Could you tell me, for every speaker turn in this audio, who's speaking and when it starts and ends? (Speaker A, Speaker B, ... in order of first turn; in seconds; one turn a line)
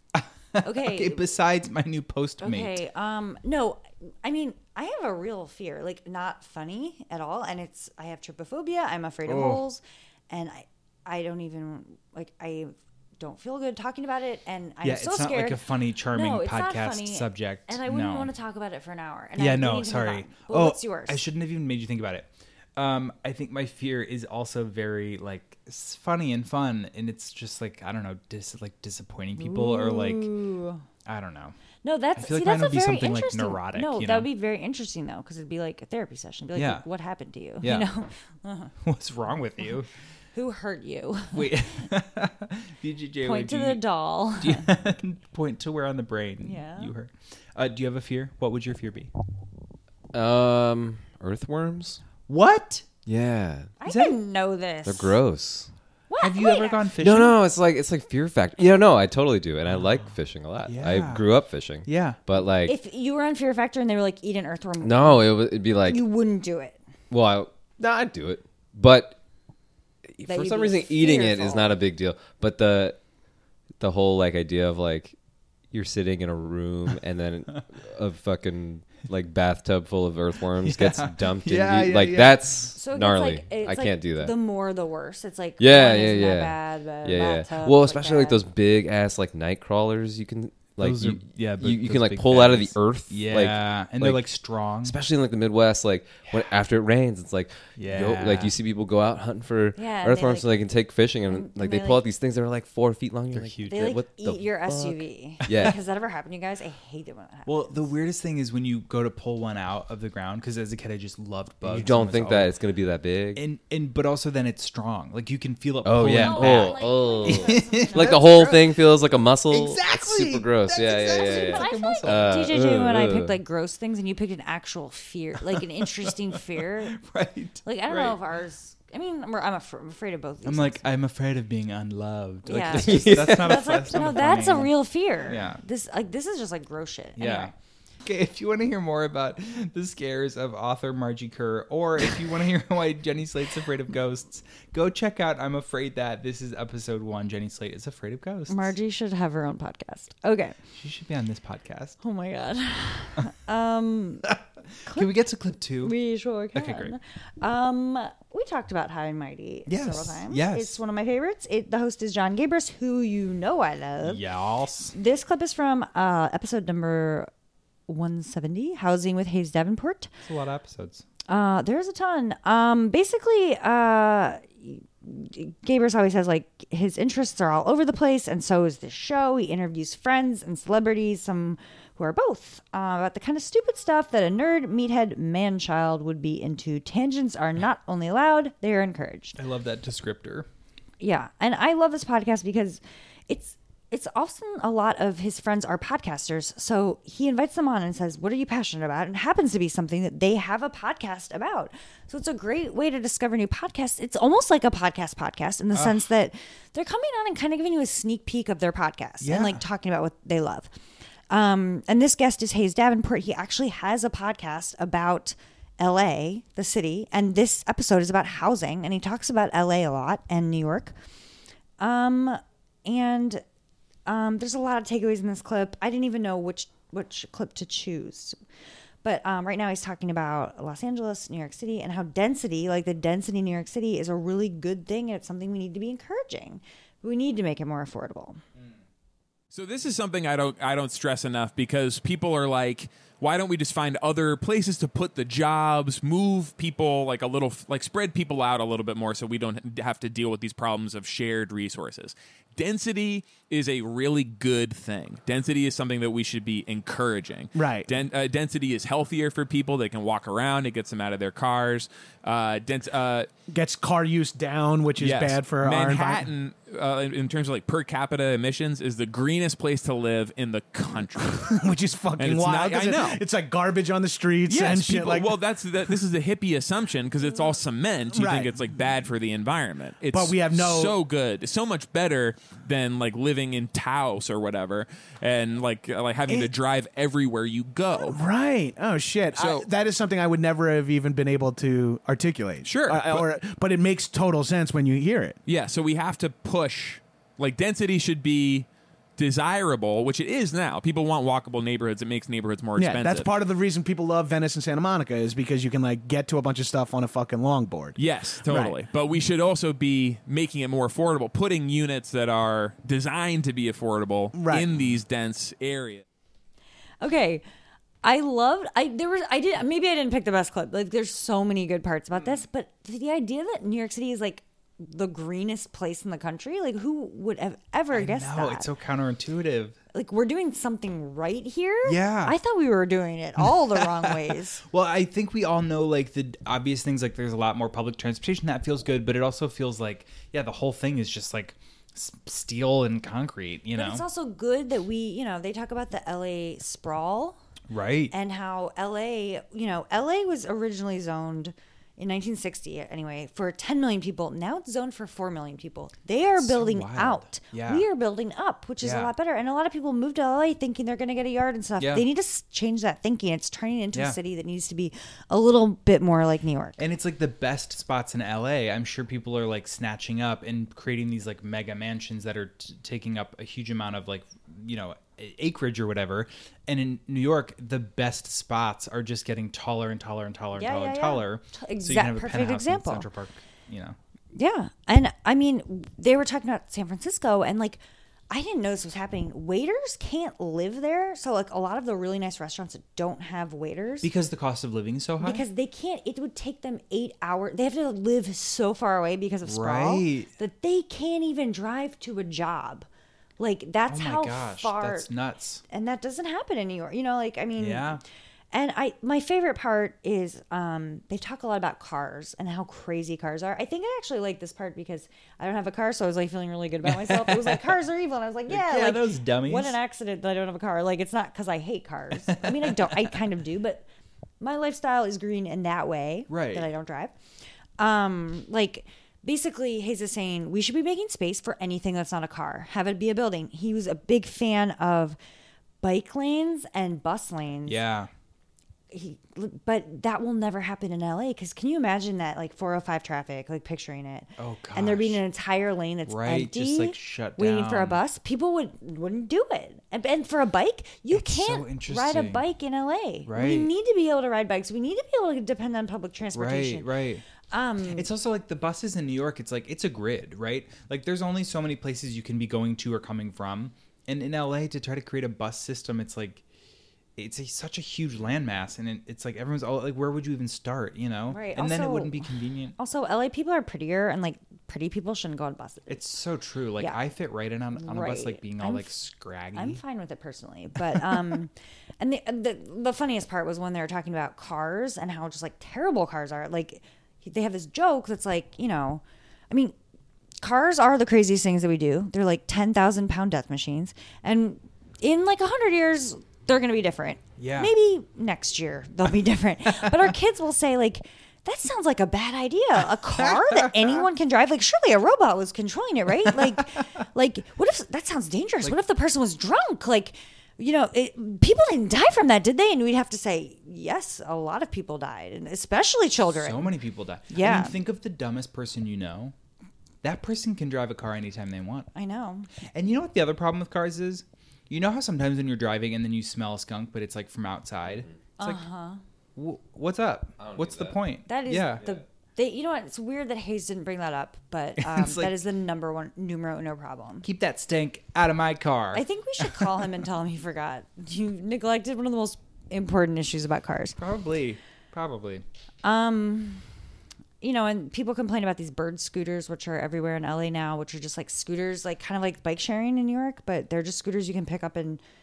Speaker A: 0.1-2.8
Speaker B: 0.6-1.3
Speaker B: 2.4-21.2
Speaker A: 9.2-9.6
Speaker A: 14.8-18.3
Speaker A: 19.4-30.3
Speaker B: 29.4-30.8
Speaker A: 31.0-31.6
Speaker B: 31.8-38.7
Speaker A: 32.1-34.3
Speaker A: 36.5-36.8
Speaker A: 37.6-37.9
Speaker A: 38.8-39.9
Speaker B: 40.3-41.6
Speaker A: 41.3-43.8
Speaker B: 43.2-44.7
Speaker A: 44.4-49.1
Speaker B: 46.4-46.9
Speaker C: 50.1-52.0
Speaker A: 52.3-52.9
Speaker C: 53.0-53.7
Speaker B: 53.8-55.2
Speaker A: 53.8-54.2
Speaker C: 54.8-55.7
Speaker B: 56.1-56.8
Speaker A: 56.2-57.4
Speaker C: 57.0-62.8
Speaker A: 60.6-61.3
Speaker A: 61.8-62.2
Speaker B: 62.6-65.3
Speaker C: 64.8-66.0
Speaker B: 65.8-66.8
Speaker C: 67.1-69.2
Speaker C: 70.2-73.0
Speaker B: 70.2-71.7
Speaker C: 73.8-75.1
Speaker C: 75.7-84.3
Speaker A: 80.6-82.7
Speaker B: 82.7-88.4
Speaker C: 85.6-94.2
Speaker A: 90.8-95.0
Speaker C: 94.8-105.8
Speaker A: 97.8-98.5
Speaker B: 99.7-100.5
Speaker B: 101.3-102.0
Speaker A: 103.3-104.0
Speaker B: 103.7-107.9
Speaker A: 107.5-112.5
Speaker C: 111.6-113.4
Speaker A: 113.3-118.7
Speaker C: 115.8-123.4
Speaker B: 116.0-118.5
Speaker A: 119.5-122.5
Speaker B: 120.8-127.0
Speaker A: 125.5-128.2
Speaker B: 127.6-130.8
Speaker A: 130.4-135.6
Speaker B: 132.4-137.5
Speaker C: 132.5-133.9
Speaker A: 137.2-137.5
Speaker A: 138.0-148.7
Speaker B: 148.5-150.6
Speaker A: 150.7-152.0
Speaker B: 152.0-154.3
Speaker A: 154.3-155.9
Speaker B: 154.8-155.1
Speaker B: 155.8-164.2
Speaker A: 156.5-156.9
Speaker A: 159.7-160.8
Speaker A: 164.0-164.9
Speaker B: 164.9-167.3
Speaker B: 167.9-170.1
Speaker A: 170.2-171.0
Speaker B: 171.3-189.4
Speaker A: 189.3-190.5
Speaker B: 191.0-210.7
Speaker A: 205.7-206.1
Speaker A: 209.2-209.6
Speaker B: 211.3-220.9
Speaker B: 221.8-223.4
Speaker B: 224.1-228.3
Speaker B: 229.0-238.4
Speaker D: 239.5-263.3
Speaker E: 257.5-257.9
Speaker E: 263.5-266.3
Speaker D: 265.0-271.6
Speaker E: 271.2-275.4
Speaker D: 272.2-273.2
Speaker D: 274.5-288.2
Speaker E: 278.1-278.6
Speaker E: 280.1-281.0
Speaker E: 287.9-295.4
Speaker D: 289.3-289.7
Speaker D: 292.6-293.3
Speaker D: 295.4-303.3
Speaker E: 302.8-308.8
Speaker D: 307.9-316.0
Speaker E: 314.3-314.8
Speaker B: 317.0-317.4
Speaker B: 318.0-328.7
Speaker A: 327.9-329.8
Speaker B: 329.9-334.6
Speaker A: 331.8-332.4
Speaker A: 333.4-344.0
Speaker B: 343.7-347.4
Speaker A: 347.7-348.1
Speaker B: 348.1-366.8
Speaker A: 356.4-357.9
Speaker A: 358.8-359.1
Speaker A: 361.8-362.1
Speaker A: 363.9-364.2
Speaker A: 366.8-384.0
Speaker B: 380.5-383.1
Speaker B: 384.3-394.1
Speaker A: 394.0-395.4
Speaker B: 395.2-402.9
Speaker A: 399.4-400.3
Speaker B: 403.4-405.1
Speaker A: 403.9-405.6
Speaker B: 405.7-408.0
Speaker A: 407.6-408.0
Speaker B: 408.5-423.8
Speaker A: 416.8-417.7
Speaker A: 418.5-419.8
Speaker A: 422.3-423.1
Speaker B: 424.4-427.1
Speaker A: 426.3-426.7
Speaker B: 427.8-435.2
Speaker B: 435.8-437.8
Speaker A: 437.6-438.1
Speaker B: 438.9-456.9
Speaker A: 444.4-445.2
Speaker A: 446.1-448.0
Speaker A: 451.1-452.4
Speaker A: 453.2-453.7
Speaker A: 456.3-457.2
Speaker B: 457.5-458.1
Speaker A: 457.9-466.4
Speaker A: 467.1-472.8
Speaker B: 471.3-472.2
Speaker B: 472.8-475.9
Speaker A: 475.9-479.8
Speaker B: 477.7-478.9
Speaker B: 479.5-489.7
Speaker A: 480.9-481.2
Speaker B: 490.4-516.7
Speaker A: 497.4-497.7
Speaker A: 499.7-500.0
Speaker A: 503.2-504.0
Speaker A: 506.2-506.8
Speaker A: 516.3-519.3
Speaker B: 517.3-517.8
Speaker A: 520.0-521.9
Speaker B: 521.9-522.5
Speaker A: 522.6-528.6
Speaker B: 528.4-529.0
Speaker A: 529.4-531.9
Speaker C: 530.4-530.9
Speaker B: 531.3-537.2
Speaker A: 534.8-535.4
Speaker A: 537.2-539.7
Speaker B: 538.9-544.0
Speaker A: 544.0-545.4
Speaker B: 545.8-546.6
Speaker B: 547.4-555.0